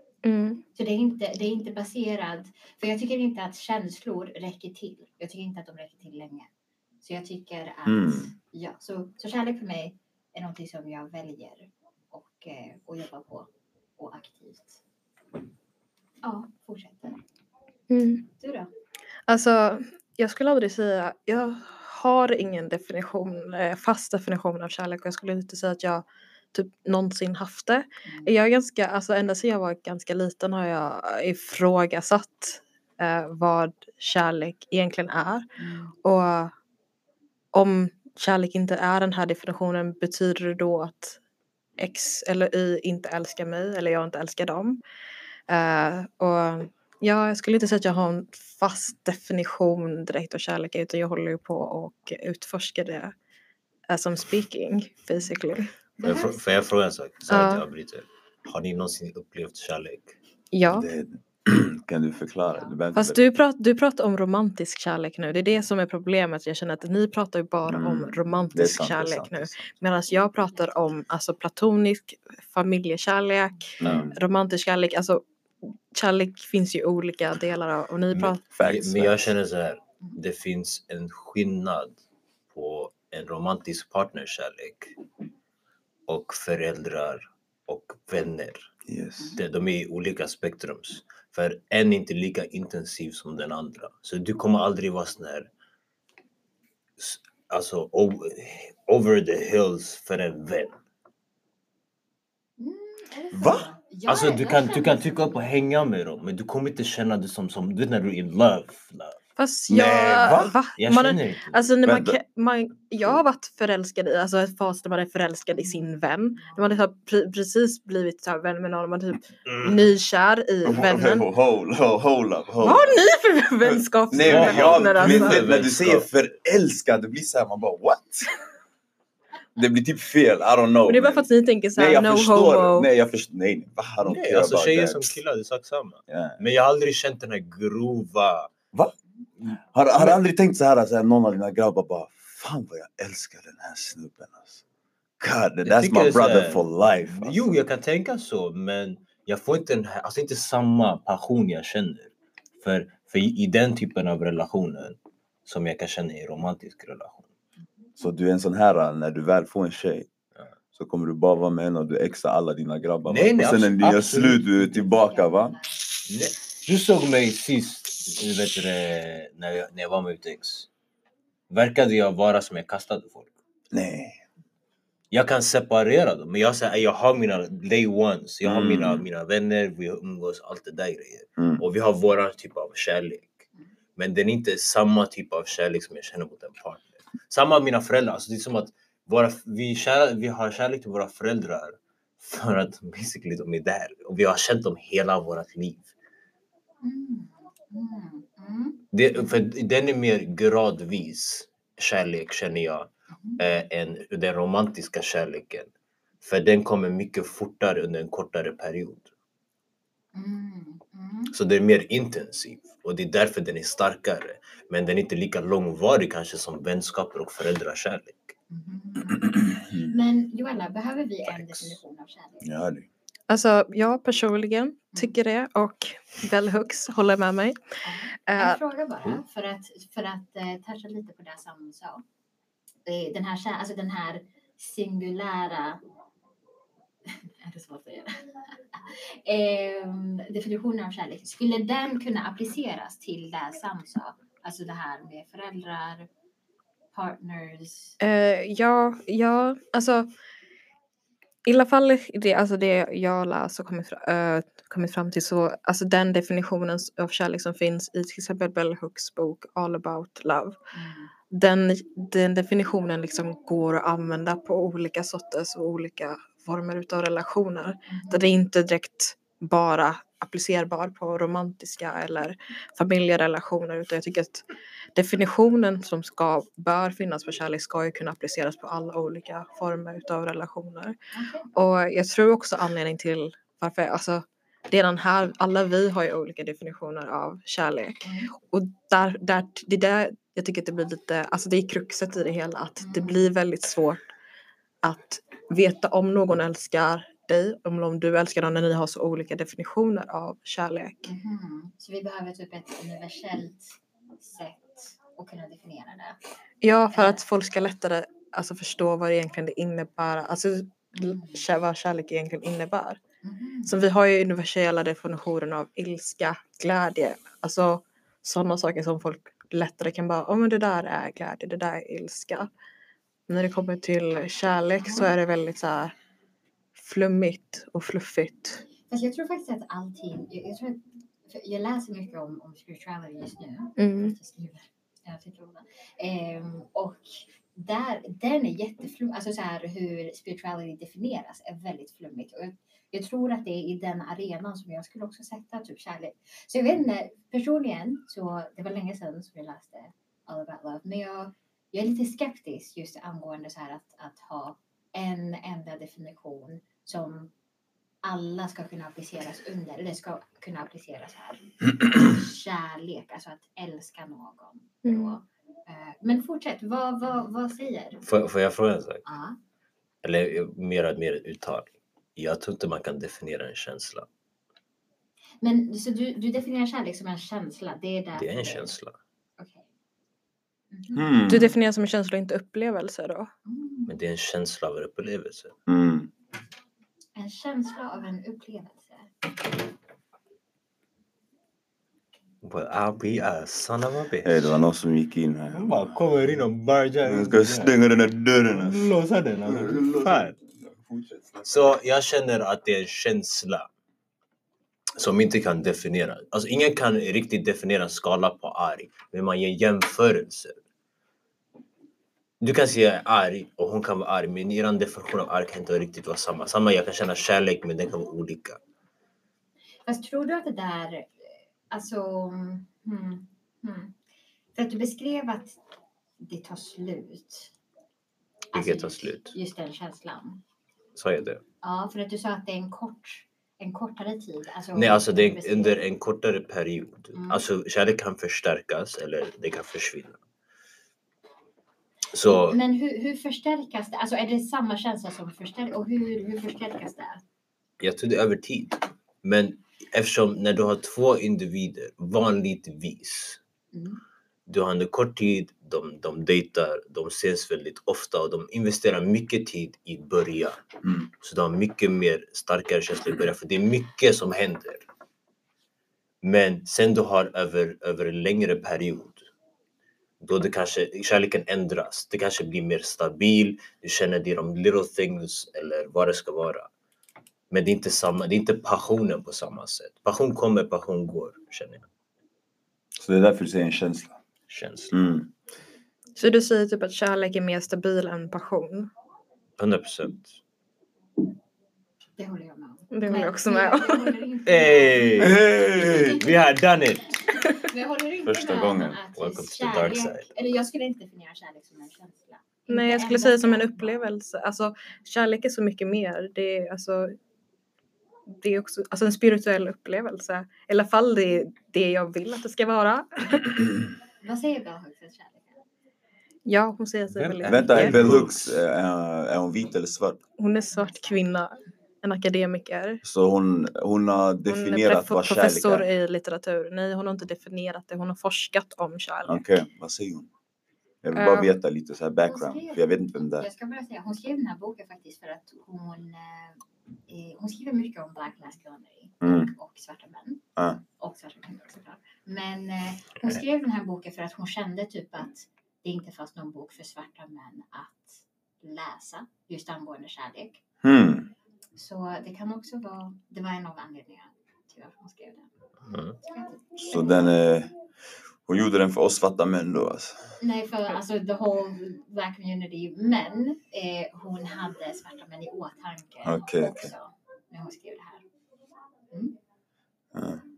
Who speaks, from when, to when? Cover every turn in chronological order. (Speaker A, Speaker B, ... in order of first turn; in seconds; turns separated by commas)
Speaker A: 0.2-0.6, Speaker B: 0.7-6.5, Speaker B: 7.0-14.8, Speaker C: 7.8-8.3, Speaker B: 16.2-17.2, Speaker A: 17.9-18.2, Speaker B: 18.4-18.7, Speaker A: 19.3-35.5, Speaker B: 28.0-28.3, Speaker B: 35.6-35.9, Speaker A: 36.0-36.5, Speaker A: 37.5-41.2, Speaker A: 41.8-44.8, Speaker A: 45.5-53.1, Speaker A: 53.9-55.7, Speaker B: 56.0-56.6, Speaker D: 56.0-60.1, Speaker A: 57.3-57.6, Speaker A: 60.5-60.9, Speaker C: 60.6-63.2, Speaker B: 62.4-62.8, Speaker A: 62.9-75.2, Speaker C: 67.7-69.7, Speaker C: 73.8-74.2, Speaker A: 75.9-78.4, Speaker D: 78.1-82.0, Speaker C: 78.5-79.3, Speaker D: 82.5-85.0, Speaker D: 86.1-88.7, Speaker C: 88.9-89.4, Speaker D: 89.3-95.5, Speaker D: 97.0-100.8, Speaker B: 102.6-105.5, Speaker C: 103.3-103.7, Speaker D: 104.0-109.2, Speaker A: 109.4-121.3, Speaker C: 109.7-110.5, Speaker D: 110.8-111.6, Speaker C: 111.8-112.2, Speaker B: 115.5-116.8, Speaker D: 119.5-119.9, Speaker C: 120.6-123.0, Speaker A: 122.6-125.4, Speaker C: 123.6-128.3, Speaker D: 124.1-126.1, Speaker C: 129.6-135.2, Speaker A: 130.8-132.9, Speaker D: 134.0-138.5, Speaker C: 136.1-136.4, Speaker D: 139.4-140.2, Speaker C: 139.7-144.6, Speaker C: 145.2-147.6, Speaker D: 145.6-157.3, Speaker C: 158.0-160.1, Speaker C: 160.7-165.6, Speaker D: 163.1-164.9, Speaker B: 164.9-165.9, Speaker D: 166.1-170.7, Speaker D: 171.5-173.3, Speaker C: 173.7-174.2, Speaker D: 175.1-195.9, Speaker C: 178.4-179.1, Speaker C: 181.4-181.6, Speaker B: 196.8-199.3, Speaker D: 198.9-205.7, Speaker B: 203.1-203.4, Speaker D: 206.2-209.1, Speaker B: 210.1-211.3, Speaker D: 211.3-218.3, Speaker B: 218.5-222.5, Speaker C: 219.2-219.9, Speaker D: 221.2-221.8, Speaker C: 222.4-222.8, Speaker A: 223.3-228.6, Speaker B: 227.8-232.0, Speaker B: 232.8-235.8, Speaker B: 237.1-246.1, Speaker B: 246.9-248.0, Speaker A: 248.0-250.1, Speaker A: 251.4-260.6, Speaker B: 260.7-261.1, Speaker A: 261.3-281.0, Speaker B: 267.9-268.2, Speaker B: 281.1-281.5, Speaker A: 281.5-294.1, Speaker B: 288.0-288.3, Speaker B: 292.8-293.3, Speaker A: 294.8-301.1, Speaker B: 301.0-306.2, Speaker A: 306.6-313.0, Speaker B: 306.9-307.2, Speaker B: 310.9-311.4, Speaker B: 313.2-313.8, Speaker A: 313.6-322.5, Speaker A: 323.3-325.9, Speaker B: 324.8-325.1, Speaker A: 326.8-328.6, Speaker B: 328.9-357.3, Speaker A: 333.8-334.1, Speaker B: 358.0-368.0, Speaker A: 364.8-365.1, Speaker D: 368.0-369.0, Speaker B: 369.0-369.4, Speaker D: 370.0-374.1, Speaker B: 375.4-378.7, Speaker D: 378.1-378.9, Speaker B: 379.4-379.7, Speaker B: 380.7-381.4, Speaker C: 380.9-381.5, Speaker A: 381.3-383.3, Speaker B: 383.4-383.9, Speaker D: 383.9-385.5, Speaker C: 385.7-386.1, Speaker B: 387.1-389.1, Speaker D: 392.4-394.6, Speaker C: 394.2-396.0, Speaker D: 395.5-397.7, Speaker C: 397.0-398.9, Speaker D: 398.5-400.3, Speaker C: 399.5-401.7, Speaker D: 401.4-403.7, Speaker D: 405.0-410.6, Speaker D: 412.4-418.6, Speaker B: 419.9-423.9, Speaker B: 424.5-425.6, Speaker B: 426.2-427.5, Speaker B: 428.5-430.4, Speaker D: 428.5-429.3, Speaker D: 430.9-431.4, Speaker B: 431.6-435.8, Speaker D: 434.7-440.2, Speaker B: 437.1-437.4, Speaker D: 442.1-442.6, Speaker B: 442.2-447.2, Speaker D: 447.8-453.4, Speaker B: 453.7-454.0, Speaker D: 454.5-460.6, Speaker D: 461.2-464.9, Speaker D: 466.2-469.2, Speaker D: 470.2-476.7, Speaker D: 477.5-481.9, Speaker C: 483.0-484.1, Speaker D: 484.5-485.1, Speaker C: 484.9-485.3, Speaker A: 486.2-488.9, Speaker D: 489.6-490.4, Speaker B: 492.2-496.3, Speaker A: 492.9-494.2, Speaker D: 494.4-497.2, Speaker C: 495.2-496.2, Speaker B: 497.2-504.0, Speaker C: 498.2-499.0, Speaker D: 499.1-500.3, Speaker A: 502.7-507.1, Speaker A: 508.4-513.7, Speaker B: 514.2-515.6, Speaker A: 516.5-518.2, Speaker D: 517.1-518.5, Speaker C: 517.5-520.2, Speaker A: 520.4-523.0, Speaker B: 520.7-521.2, Speaker C: 523.0-525.9, Speaker A: 524.5-529.4, Speaker C: 529.2-530.3, Speaker C: 531.0-533.5, Speaker A: 531.1-531.5, Speaker B: 532.2-550.6, Speaker C: 539.2-539.5, Speaker C: 550.8-551.3, Speaker B: 551.7-557.4, Speaker D: 555.8-556.1, Speaker C: 556.8-557.7, Speaker C: 558.5-560.4, Speaker B: 560.4-568.2, Speaker C: 566.2-566.9, Speaker C: 570.1-570.4